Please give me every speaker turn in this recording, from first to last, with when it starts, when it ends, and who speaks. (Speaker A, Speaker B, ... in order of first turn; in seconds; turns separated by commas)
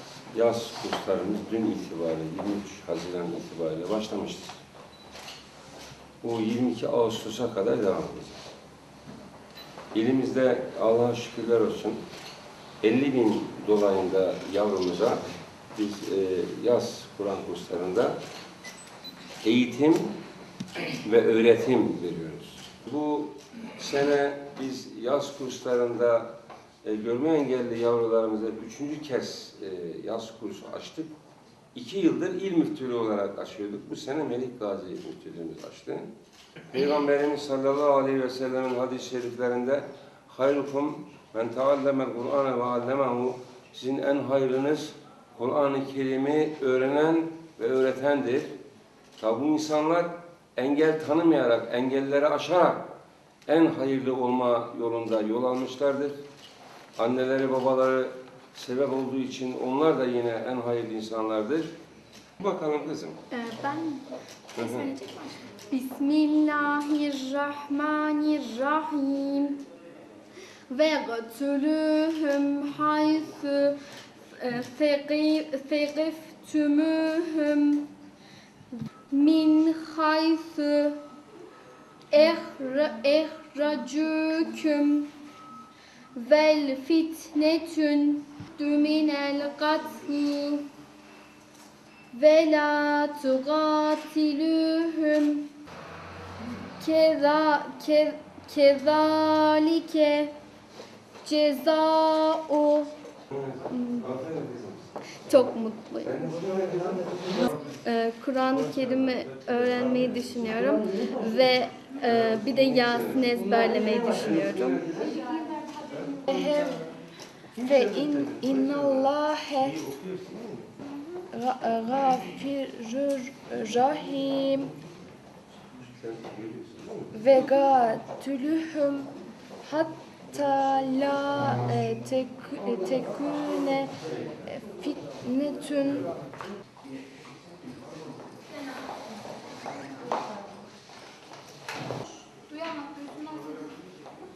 Speaker A: 0.3-4.6, Speaker A: 6.2-8.4, Speaker A: 9.9-12.0, Speaker A: 12.8-15.2, Speaker A: 15.8-18.2, Speaker A: 19.4-20.1, Speaker A: 21.0-26.3, Speaker A: 26.8-31.1, Speaker A: 31.7-36.1, Speaker A: 36.7-48.5, Speaker A: 49.2-52.9, Speaker A: 53.5-56.2, Speaker A: 57.0-61.7, Speaker A: 62.4-63.2, Speaker B: 63.3-69.7, Speaker A: 64.6-64.9, Speaker B: 70.7-73.8, Speaker B: 74.3-77.9, Speaker B: 78.7-81.0, Speaker B: 82.1-85.1, Speaker B: 86.2-90.7, Speaker B: 92.1-95.5, Speaker B: 96.8-100.3, Speaker B: 101.2-103.0, Speaker A: 103.3-104.9, Speaker B: 103.7-104.0, Speaker B: 105.3-106.3, Speaker A: 106.0-107.2, Speaker B: 107.7-115.6, Speaker A: 114.3-115.2, Speaker C: 116.3-116.8, Speaker C: 117.6-119.8, Speaker A: 119.8-120.6, Speaker C: 121.3-124.7, Speaker A: 125.7-127.1, Speaker C: 127.1-129.1, Speaker C: 129.6-133.9, Speaker C: 134.4-136.1, Speaker B: 142.5-143.7